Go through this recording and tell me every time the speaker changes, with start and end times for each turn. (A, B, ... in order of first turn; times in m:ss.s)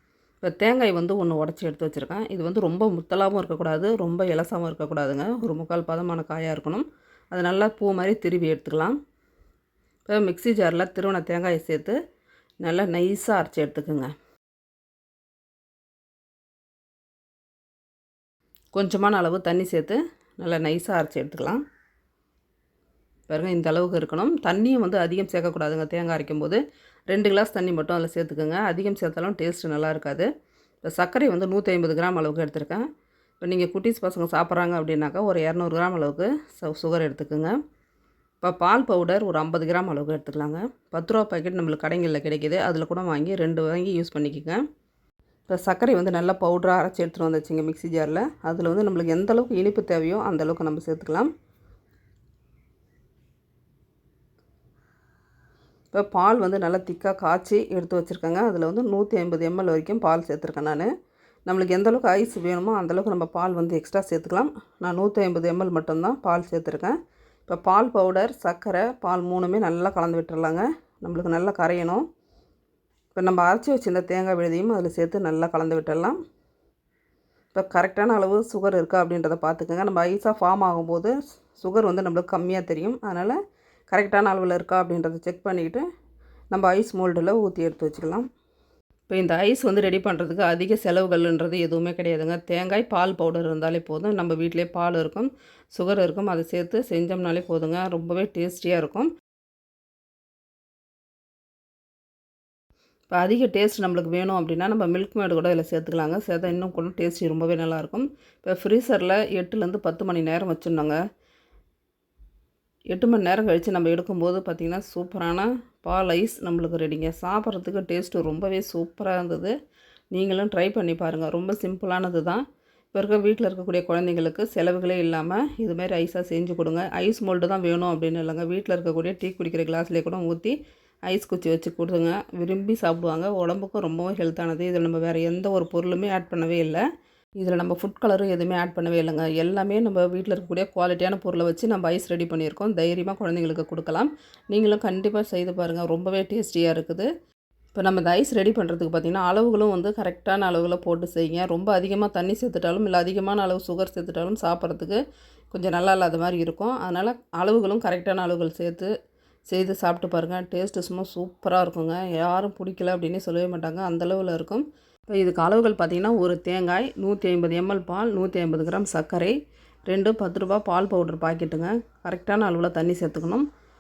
0:00.4-0:09.0 A
0:10.1-0:12.0 A
0:12.6-0:14.1 A
0:18.8-0:21.6 A
0:23.3-0:30.3 A
0:30.8-0:32.9 A
0:33.4-0:37.6 A
0:38.4-0:44.6 A
0:45.5-0:51.3 A
0:55.9-1:00.9 A
1:01.5-1:07.0 A
1:07.5-1:12.1 A
1:13.2-1:16.2 A
1:17.5-1:23.4 A
1:23.9-1:25.9 A
1:26.5-1:28.3 A
1:29.1-1:39.1 A
1:43.1-1:51.0 A
1:52.9-1:59.5 A
2:00.1-2:10.6 A
2:11.1-2:16.8 A
2:17.4-2:27.1 A
2:27.7-2:38.9 A
2:39.5-2:49.4 A
2:49.9-2:53.5 A